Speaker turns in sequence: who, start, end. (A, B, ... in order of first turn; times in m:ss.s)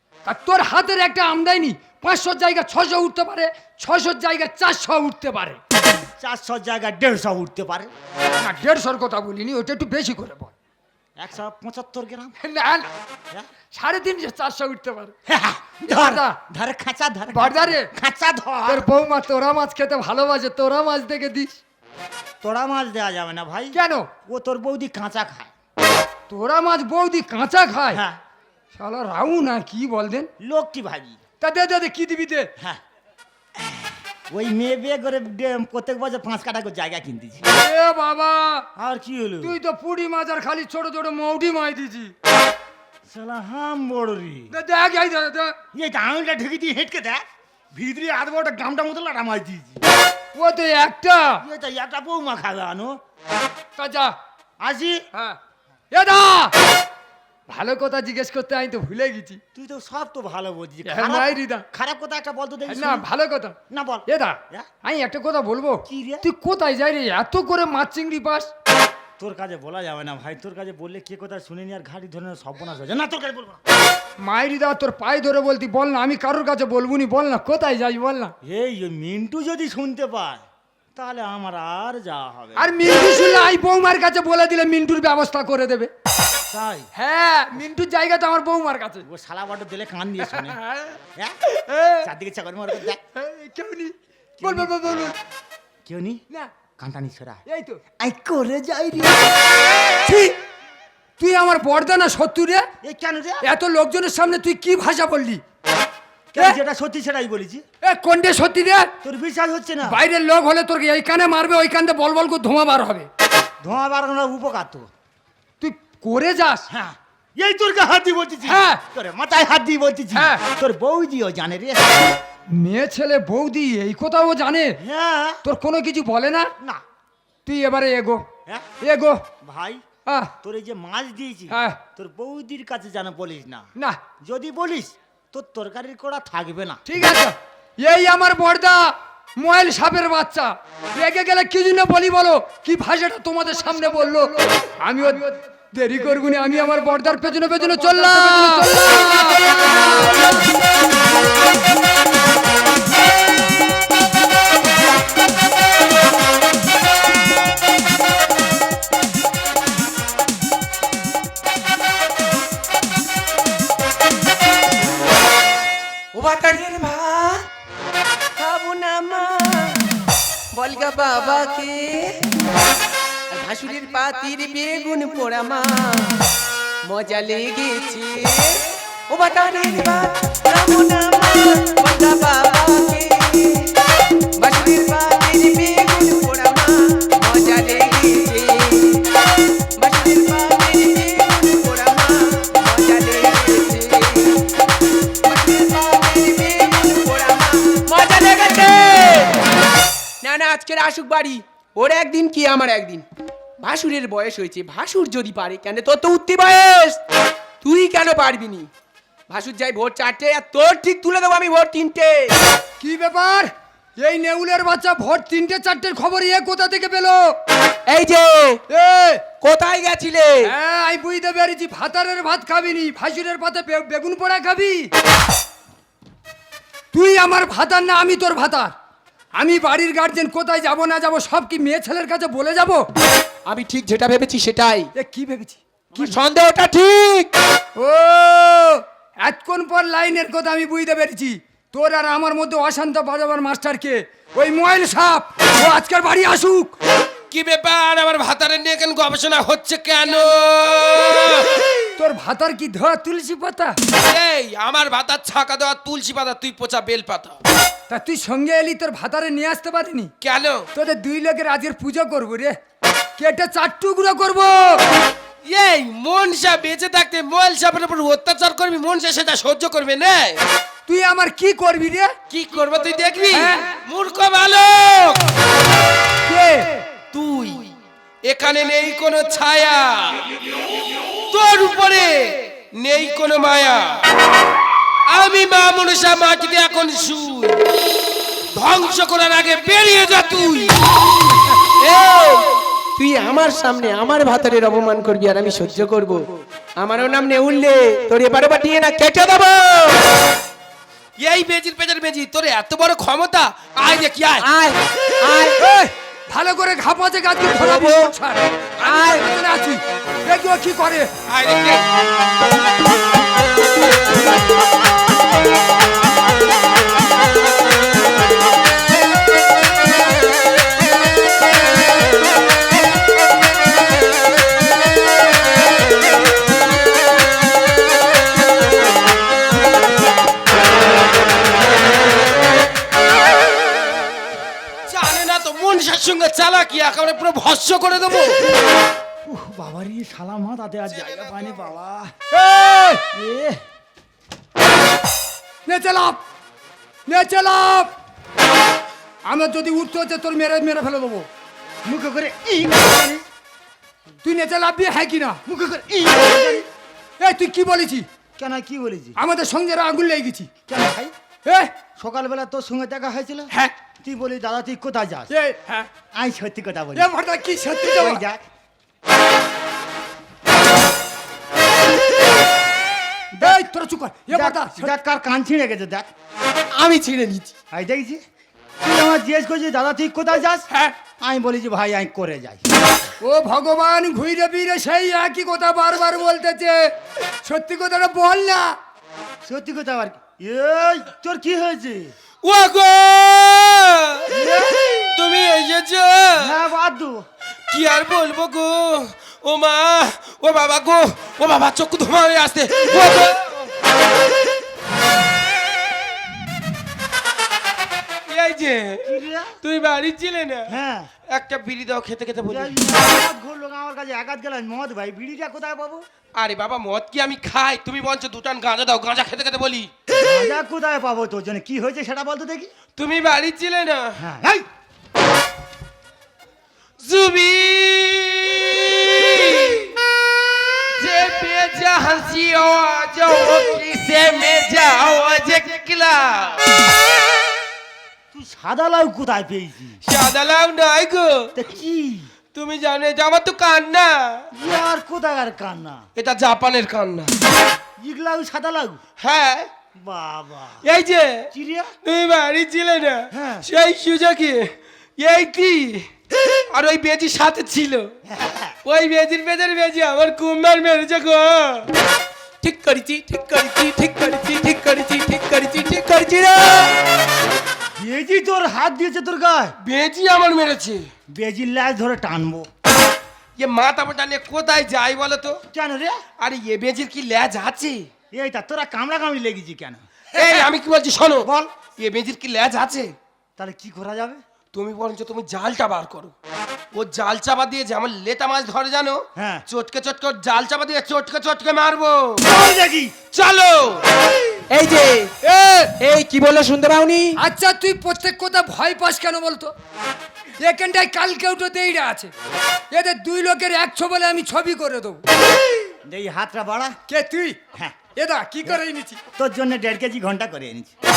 0:00.3-0:05.6 A
0:06.2-0:07.9 B
0:08.4-0:10.5 A
0:11.2-0:12.4 B
0:12.4-0:12.9 A
0:13.7-0:15.1 A
0:15.3-0:18.9 B
0:15.8-0:16.4 A
0:17.3-0:17.9 A
0:18.7-0:21.6 A
0:22.4-0:25.5 B
0:23.7-0:24.1 A
0:26.3-0:28.0 A
0:27.9-0:28.2 B
0:28.7-0:30.3 A
0:30.4-0:31.2 B
0:31.4-0:32.5 A
0:33.6-0:37.4 B
0:37.5-0:38.7 A
0:38.8-0:39.6 B
0:39.4-0:42.1 A
0:43.1-0:44.5 B
0:44.5-0:45.6 A
0:45.7-0:49.8 B
0:50.3-0:51.4 A
0:51.4-0:53.0 B
0:53.8-0:54.2 A
0:54.6-0:55.0 B
0:55.9-0:56.6 A
0:57.5-0:59.4 A
0:59.6-1:03.1 B
1:00.8-1:01.6 A
1:02.7-1:08.5 A
1:03.7-1:04.7 B
1:05.9-1:06.3 B
1:09.2-1:13.6 B
1:14.2-1:18.3 A
1:18.4-1:20.4 B
1:21.0-1:22.7 B
1:22.6-1:25.9 A
1:26.5-1:26.9 B
1:27.0-1:29.0 A
1:29.0-1:30.6 B
1:30.4-1:30.9 A
1:31.5-1:32.1 A
1:32.0-1:33.0 B
1:33.2-1:35.2 A
1:34.4-1:34.7 B
1:35.8-1:36.2 B
1:36.8-1:37.4 B
1:37.5-1:37.8 A
1:38.0-1:39.4 B
1:40.0-1:40.4 A
1:41.2-1:42.7 A
1:42.8-1:43.4 B
1:43.4-1:45.4 A
1:46.3-1:47.6 B
1:47.8-1:48.9 A
1:49.0-1:50.0 B
1:49.9-1:53.1 A
1:53.6-1:54.9 B
1:55.6-1:56.7 A
1:56.7-2:02.0 B
1:58.4-1:58.8 A
2:00.1-2:00.4 A
2:02.5-2:04.8 A
2:04.8-2:05.4 B
2:05.4-2:06.5 A
2:07.5-2:08.3 A
2:08.8-2:09.2 A
2:09.4-2:09.8 B
2:10.1-2:10.3 A
2:10.4-2:13.7 B
2:11.5-2:11.8 A
2:14.2-2:16.8 B
2:16.9-2:30.5 A
2:46.1-2:47.5 C
2:48.4-2:49.8 C
2:50.5-2:52.3 C
2:53.3-2:56.2 C
2:56.9-3:03.7 C
3:04.4-3:09.0 C
3:09.8-3:14.4 C
3:15.2-3:19.4 C
3:20.2-3:23.1 C
3:23.6-3:27.0 C
3:27.6-3:28.7 C
3:29.3-3:32.4 C
3:32.8-3:37.4 A
3:37.9-3:38.6 C
3:38.7-3:39.2 A
3:39.4-3:40.5 C
3:40.4-3:44.9 A
3:46.9-3:48.7 A
3:49.4-3:52.9 A
3:53.5-3:54.9 C
3:55.0-3:55.6 A
3:56.0-3:57.3 C
3:57.8-4:06.8 A
4:07.3-4:11.6 D
4:12.0-4:13.8 A
4:14.0-4:17.4 D
4:17.9-4:20.1 A
4:20.2-4:20.7 D
4:20.8-4:22.6 A
4:23.2-4:24.8 A
4:25.5-4:30.4 D
4:30.9-4:32.1 A
4:32.3-4:35.3 D
4:33.3-4:33.8 A
4:36.3-4:36.8 A
4:37.1-4:37.7 D
4:38.2-4:40.4 D
4:41.3-4:44.0 D
4:45.1-4:47.6 D
4:48.5-4:50.9 D
4:51.8-4:56.3 C
4:56.8-5:00.1 C
5:01.2-5:04.5 D
5:04.4-5:05.6 C
5:05.6-5:11.1 A
5:07.6-5:08.1 C
5:08.8-5:09.3 C
5:11.3-5:11.9 D
5:34.9-5:38.4 D
5:39.3-5:42.1 B
5:42.3-5:43.0 A
5:43.1-5:43.6 B
5:45.7-5:46.2 A
5:47.1-5:47.9 A
5:49.2-5:51.3 A
5:51.8-5:53.2 B
5:54.2-5:55.4 A
5:55.5-5:56.7 B
5:57.2-5:58.1 A
5:58.4-5:59.2 B
5:59.2-6:00.5 A
6:00.7-6:01.1 B
6:01.4-6:01.7 A
6:02.0-6:05.3 B
6:05.3-6:05.9 A
6:06.1-6:07.1 B
6:07.0-6:08.2 A
6:07.9-6:08.5 B
6:13.4-6:13.6 B
6:13.4-6:14.9 A
6:14.3-6:16.1 B
6:16.7-6:17.5 C
6:17.7-6:18.2 B
6:18.8-6:20.7 B
6:21.2-6:22.6 B
6:23.2-6:28.8 A
6:29.4-6:32.1 B
6:32.4-6:34.3 D
6:34.3-6:35.1 B
6:35.2-6:36.6 D
6:36.4-6:37.3 B
6:37.7-6:43.7 D
6:48.3-6:50.8 D
6:49.0-6:49.6 B
6:50.7-6:51.1 B
6:51.3-6:52.8 D
6:52.5-6:56.1 B
6:56.4-6:59.9 D
7:00.1-7:02.7 B
7:03.0-7:04.2 D
7:04.2-7:04.7 B
7:07.0-7:09.9 D
7:11.0-7:16.7 D
7:18.3-7:20.0 B
7:20.1-7:21.5 D
7:21.6-7:22.3 B
7:22.5-7:24.5 D
7:24.5-7:26.0 B
7:26.2-7:27.3 D
7:28.0-7:29.0 B
7:29.2-7:29.7 D
7:30.0-7:30.8 B
7:30.8-7:31.5 D
7:31.5-7:31.9 B
7:32.0-7:36.1 D
7:33.3-7:33.7 B
7:36.7-7:38.2 D
7:38.2-7:38.8 B
7:38.8-7:41.9 D
7:42.6-7:46.9 C
7:48.0-7:49.8 B
7:49.8-7:51.1 D
7:51.3-7:52.7 B
7:53.6-7:55.6 D
7:55.7-7:56.2 B
7:56.4-7:58.1 D
7:58.3-8:00.7 B
8:00.4-8:03.1 D
8:01.4-8:01.7 B
8:03.6-8:04.4 B
8:04.7-8:06.4 D
8:06.9-8:12.4 D
8:09.4-8:09.6 B
8:12.4-8:13.2 B
8:13.3-8:14.0 D
8:14.7-8:15.4 C
8:15.4-8:15.9 A
8:16.0-8:17.4 C
8:17.4-8:19.7 A
8:20.6-8:22.3 A
8:22.9-8:25.2 A
8:26.1-8:27.0 B
8:27.1-8:27.6 A
8:28.2-8:29.2 A
8:29.4-8:30.9 B